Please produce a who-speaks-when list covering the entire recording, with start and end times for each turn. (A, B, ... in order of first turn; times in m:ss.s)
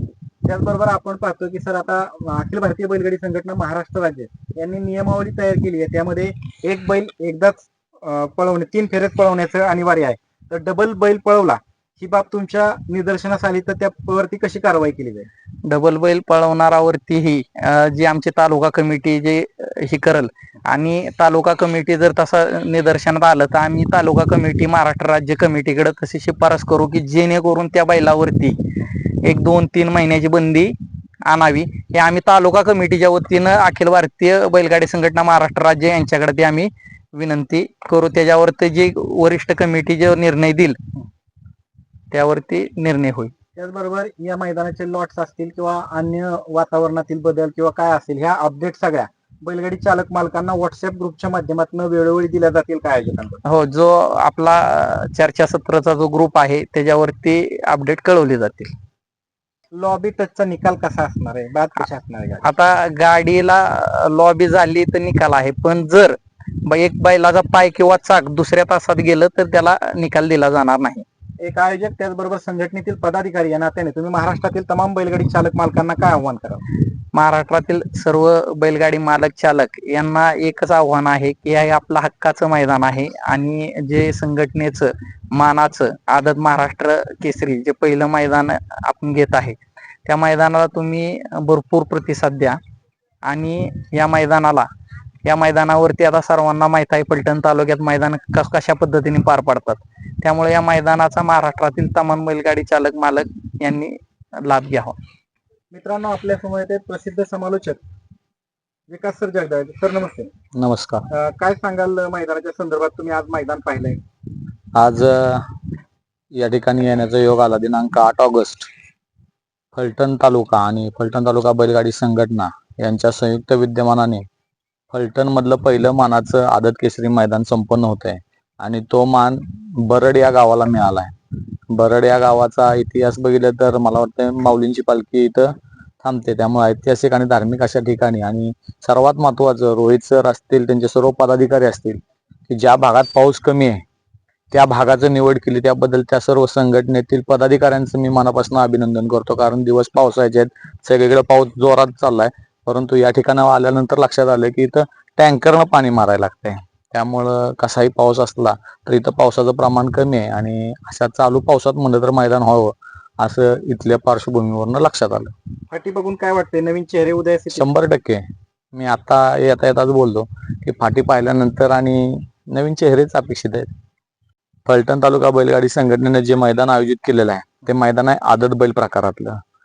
0:00.4-0:15.3 A
0:15.7-0:28.6 B
0:29.2-0:30.8 B
0:31.3-0:40.8 B
0:42.1-0:43.3 B
0:43.6-0:53.4 A
0:53.5-0:58.7 B
0:59.7-1:02.4 A
1:02.4-1:11.0 B
1:11.4-1:16.6 A
1:17.1-1:32.6 B
1:33.3-1:34.7 B
1:35.2-1:45.0 B
1:45.7-1:47.8 A
1:48.9-1:50.3 A
1:50.6-1:51.1 C
1:51.1-1:54.0 A
1:54.8-1:55.4 C
1:56.3-1:58.7 C
1:59.7-2:04.2 C
2:04.9-2:11.1 C
2:11.7-2:15.5 C
2:16.0-2:23.8 C
2:24.5-2:45.3 C
2:45.7-2:47.6 A
2:47.5-2:53.7 C
2:54.7-2:59.4 C